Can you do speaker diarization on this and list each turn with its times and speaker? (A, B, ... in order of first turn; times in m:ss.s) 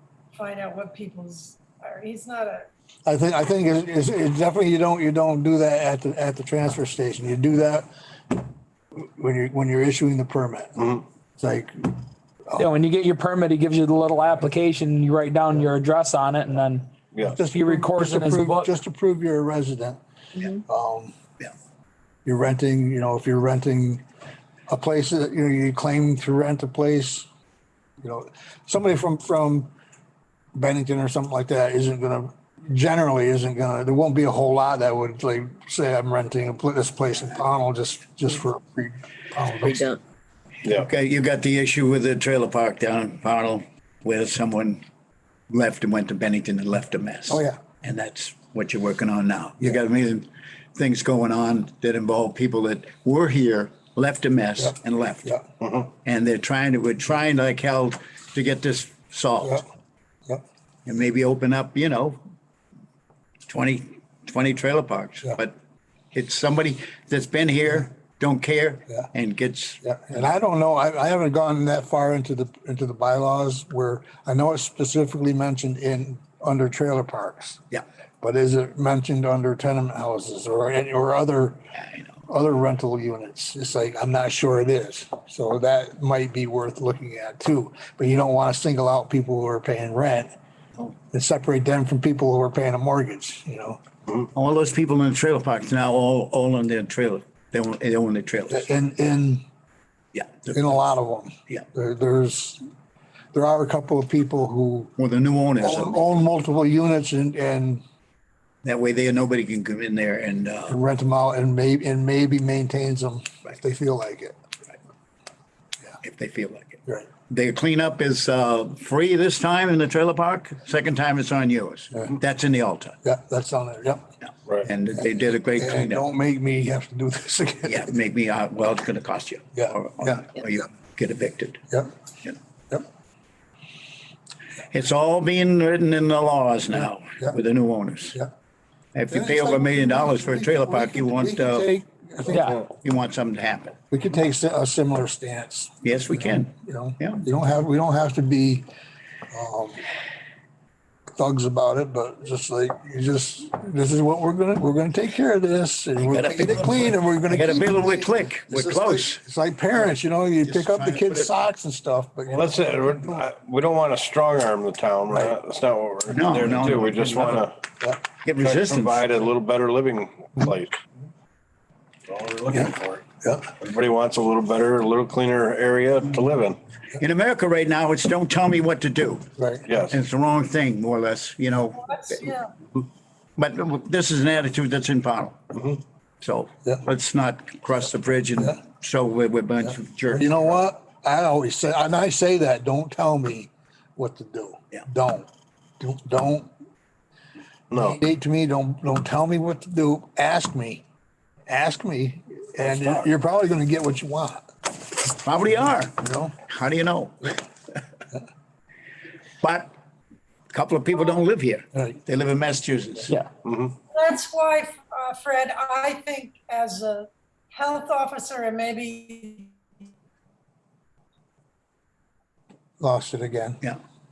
0:00.3-0:02.7 A
0:03.1-0:07.9 B
0:09.0-0:12.7 B
0:10.8-0:11.0 C
0:12.6-0:18.7 D
0:17.1-0:17.4 C
0:17.4-0:20.0 B
0:20.5-0:21.2 B
0:22.2-0:24.0 B
0:24.7-0:27.3 B
0:28.0-0:29.7 B
0:30.6-0:39.9 B
0:40.7-0:44.8 E
0:45.5-0:55.4 E
0:47.3-0:47.6 B
0:54.6-0:55.4 B
0:55.6-0:55.9 C
0:56.0-0:59.6 E
1:00.9-1:02.2 E
1:03.5-1:05.6 E
1:06.1-1:10.3 E
1:09.8-1:17.6 B
1:18.2-1:21.6 B
1:21.8-1:22.2 E
1:22.3-1:30.3 B
1:31.1-1:33.8 B
1:34.3-1:38.7 E
1:38.5-1:39.4 B
1:40.1-1:40.5 E
1:40.5-1:42.6 B
1:43.3-1:44.9 B
1:45.0-1:46.0 E
1:45.6-1:47.8 B
1:48.6-1:50.8 E
1:50.7-1:54.4 B
1:56.0-2:03.0 E
2:03.0-2:04.0 B
2:04.6-2:06.1 E
2:05.6-2:07.9 B
2:07.7-2:11.6 E
2:09.6-2:10.6 B
2:14.7-2:18.2 E
2:16.7-2:17.4 B
2:18.9-2:21.7 E
2:19.1-2:22.6 B
2:22.3-2:22.6 D
2:22.6-2:23.8 E
2:23.9-2:28.7 B
2:25.8-2:27.2 E
2:29.3-2:29.8 B
2:31.2-2:43.2 B
2:36.0-2:39.2 E
2:40.4-2:41.3 E
2:42.3-2:47.6 C
2:46.1-2:47.5 E
2:48.2-2:49.1 E
2:48.4-2:50.8 C
2:52.1-2:53.0 C
2:52.5-2:53.5 B
2:53.6-2:56.6 C
2:57.0-2:59.3 E
2:59.4-2:59.7 B
2:59.7-3:00.0 C
2:59.9-3:02.2 E
3:01.7-3:02.5 A
3:03.4-3:05.4 E
3:06.2-3:10.4 E
3:10.1-3:15.3 B
3:15.8-3:16.5 B
3:17.7-3:18.0 C
3:17.7-3:20.8 B
3:21.5-3:24.5 B
3:22.6-3:23.1 C
3:25.1-3:27.4 E
3:26.0-3:26.4 B
3:29.4-3:29.7 E
3:30.5-3:33.2 E
3:33.4-3:33.7 C
3:33.9-3:39.6 A
3:42.8-3:43.6 B